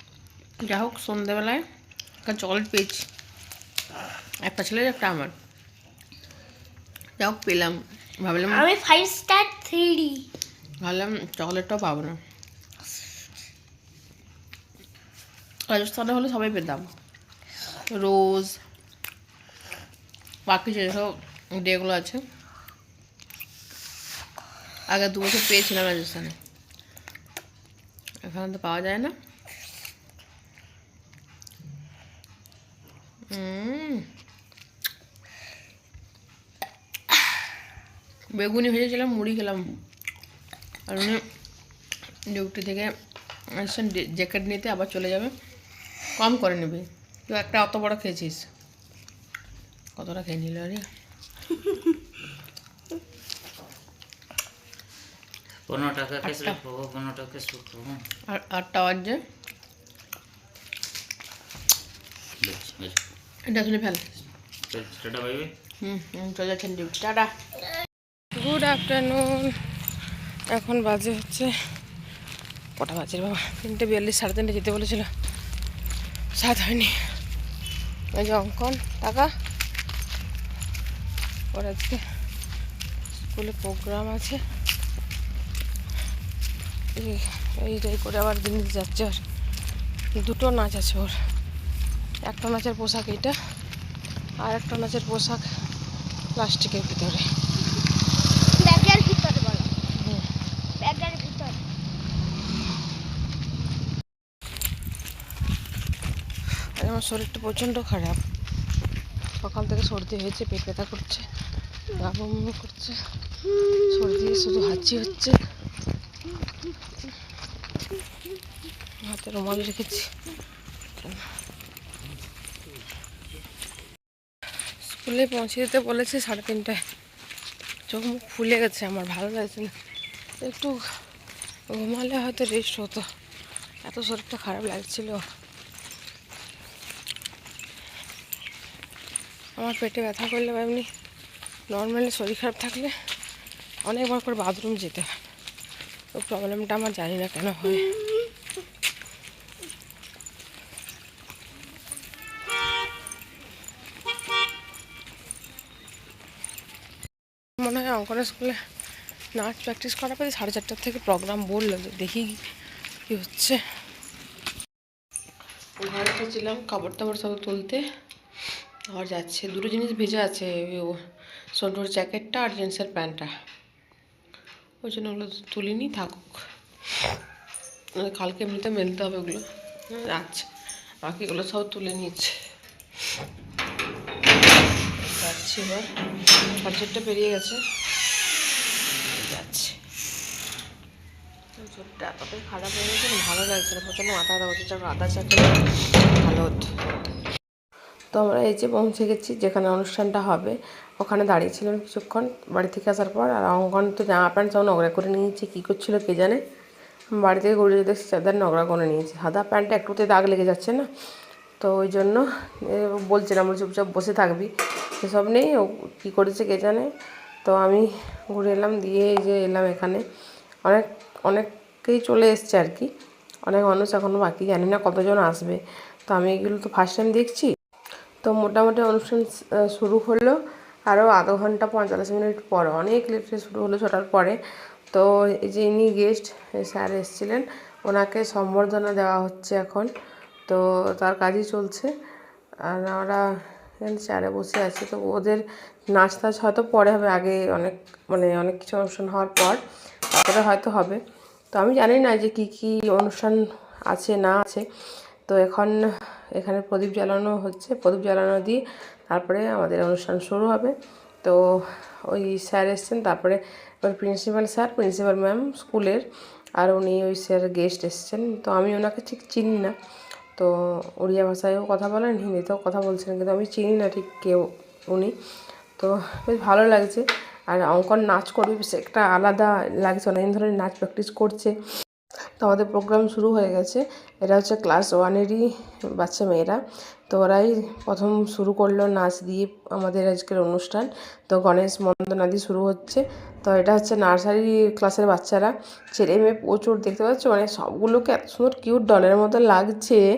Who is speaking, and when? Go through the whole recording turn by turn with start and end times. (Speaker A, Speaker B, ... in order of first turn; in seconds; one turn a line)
Speaker A: 0.6-1.6
Speaker A: 2.2-3.0
Speaker A: 4.5-5.4
Speaker A: 7.2-8.7
Speaker B: 8.5-10.2
Speaker A: 10.8-12.2
Speaker A: 15.7-16.9
Speaker A: 17.9-18.6
Speaker A: 20.5-22.2
Speaker A: 24.9-26.4
Speaker A: 28.2-29.1
Speaker A: 33.3-34.1
Speaker A: 38.3-39.8
Speaker A: 40.9-41.3
Speaker A: 42.3-42.9
Speaker A: 43.5-45.3
Speaker A: 46.2-48.5
Speaker A: 50.0-50.9
Speaker C: 55.6-58.0
Speaker A: 56.2-56.6
Speaker A: 58.3-59.2
Speaker C: 62.4-63.0
Speaker A: 63.5-64.1
Speaker C: 64.7-65.5
Speaker A: 65.8-67.3
Speaker A: 68.3-69.7
Speaker A: 70.5-71.5
Speaker A: 72.8-75.1
Speaker A: 76.3-77.2
Speaker A: 78.1-79.3
Speaker A: 81.5-82.0
Speaker A: 83.2-84.4
Speaker A: 86.9-89.2
Speaker A: 90.2-91.2
Speaker A: 92.2-93.3
Speaker A: 94.4-95.5
Speaker A: 96.3-97.2
Speaker B: 98.5-99.7
Speaker A: 99.9-100.3
Speaker B: 100.8-101.6
Speaker A: 106.6-108.2
Speaker A: 109.4-111.3
Speaker A: 111.9-113.0
Speaker A: 113.8-115.4
Speaker A: 119.0-120.1
Speaker A: 121.0-121.3
Speaker A: 124.8-126.8
Speaker A: 127.9-129.7
Speaker A: 130.4-130.8
Speaker A: 131.7-133.1
Speaker A: 133.8-135.2
Speaker A: 139.6-140.9
Speaker A: 141.7-142.9
Speaker A: 143.8-145.2
Speaker A: 146.1-147.9
Speaker A: 157.6-158.6
Speaker A: 159.3-162.4
Speaker A: 163.1-163.6
Speaker A: 165.8-167.8
Speaker A: 168.9-171.0
Speaker A: 171.5-173.3
Speaker A: 174.8-176.4
Speaker A: 177.9-180.5
Speaker A: 181.0-182.4
Speaker A: 184.9-185.9
Speaker A: 186.5-187.6
Speaker A: 189.1-189.8
Speaker A: 191.6-196.7
Speaker A: 198.1-206.4
Speaker A: 207.2-210.8
Speaker A: 211.6-216.9
Speaker A: 217.4-220.0
Speaker A: 220.6-222.9
Speaker A: 223.4-227.5
Speaker A: 228.2-230.4
Speaker A: 230.9-234.4
Speaker A: 234.9-239.9
Speaker A: 240.5-241.9
Speaker A: 242.6-243.2
Speaker A: 243.8-251.0
Speaker A: 251.5-254.7
Speaker A: 255.2-266.1
Speaker A: 266.6-269.7
Speaker A: 270.3-275.1
Speaker A: 275.8-281.6
Speaker A: 282.4-300.0